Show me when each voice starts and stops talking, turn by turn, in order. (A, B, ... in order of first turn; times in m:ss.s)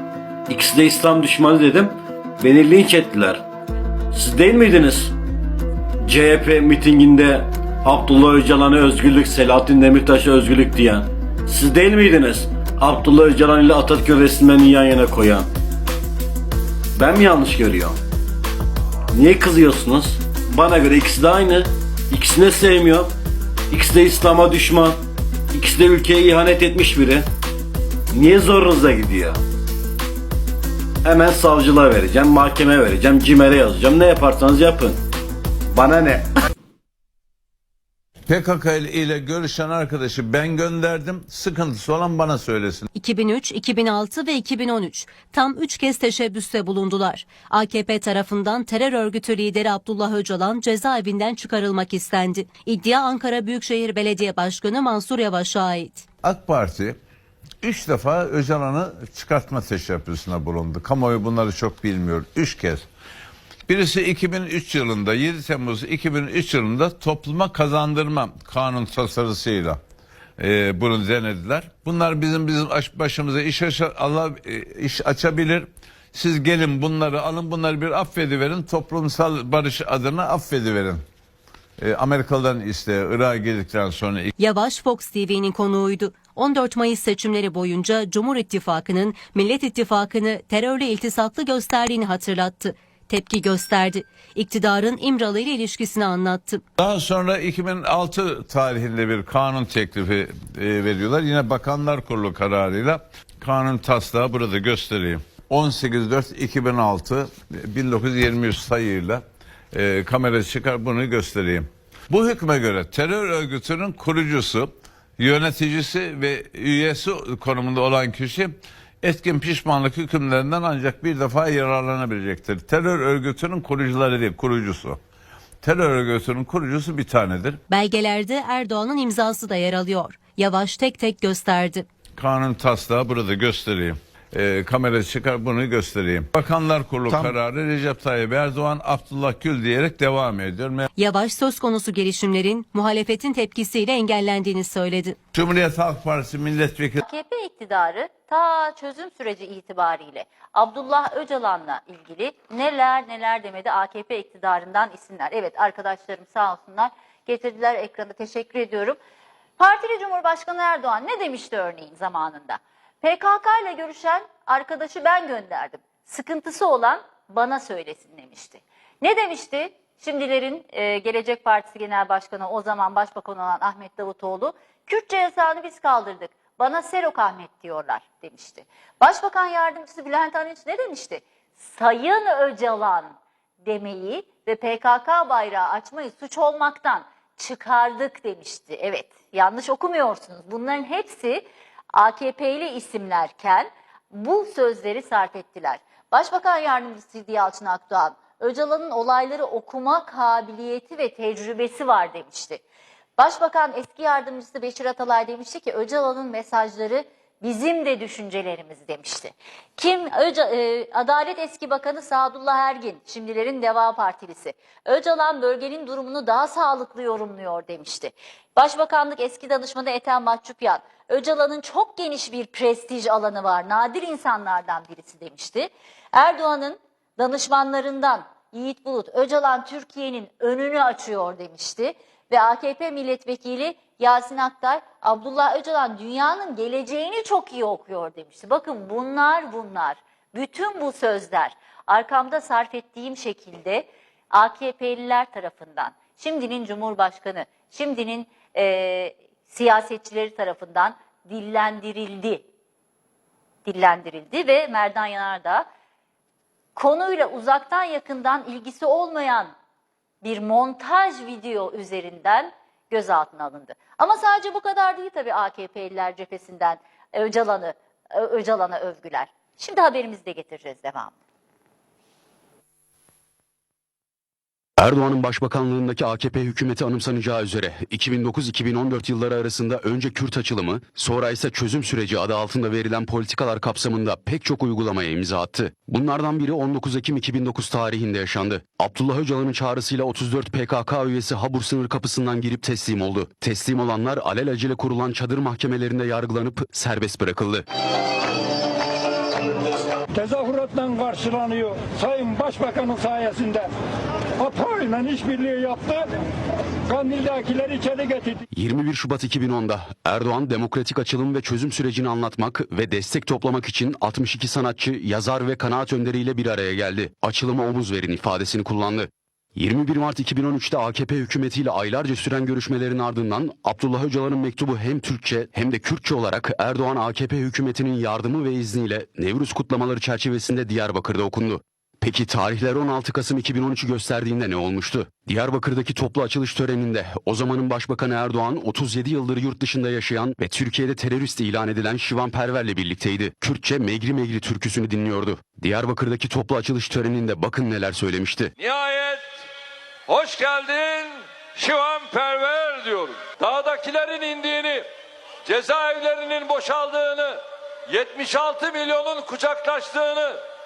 0:00.5-0:03.4 A
0:04.1-0:05.1 A
0:06.0-0:15.5 A
0:17.0-0:18.0 A
0:19.1-0:23.1 A
0:23.7-0:25.0 A
0:25.5-0:27.3 A
0:28.1-0:29.4 A
0:31.0-0:35.0 A
0:35.7-0:36.3 A
0:38.3-0:42.9 B
0:42.9-0:56.0 C
0:56.2-0:57.0 B
0:57.6-1:02.8 B
1:03.7-1:09.8 B
1:10.4-1:21.0 B
1:21.8-1:24.3 B
1:24.4-1:36.6 C
1:36.8-2:05.0 B
2:05.6-2:07.6 B
2:07.7-2:11.8 C
2:12.2-2:20.9 B
2:21.0-2:25.2 C
2:25.3-2:27.0 B
2:27.0-2:39.0 D
2:39.6-3:03.1 D
3:03.6-3:22.6 D
3:23.2-4:12.4 D
4:13.6-4:15.6 D
4:16.8-4:19.5 D
4:20.2-4:31.2 D
4:34.8-4:57.6 E
5:00.1-5:03.7 F
5:04.4-5:06.0 F
5:06.9-5:08.4 F
5:08.5-5:48.5 E
5:48.6-5:49.3 G
5:50.1-5:54.9 G
5:55.4-6:00.4 G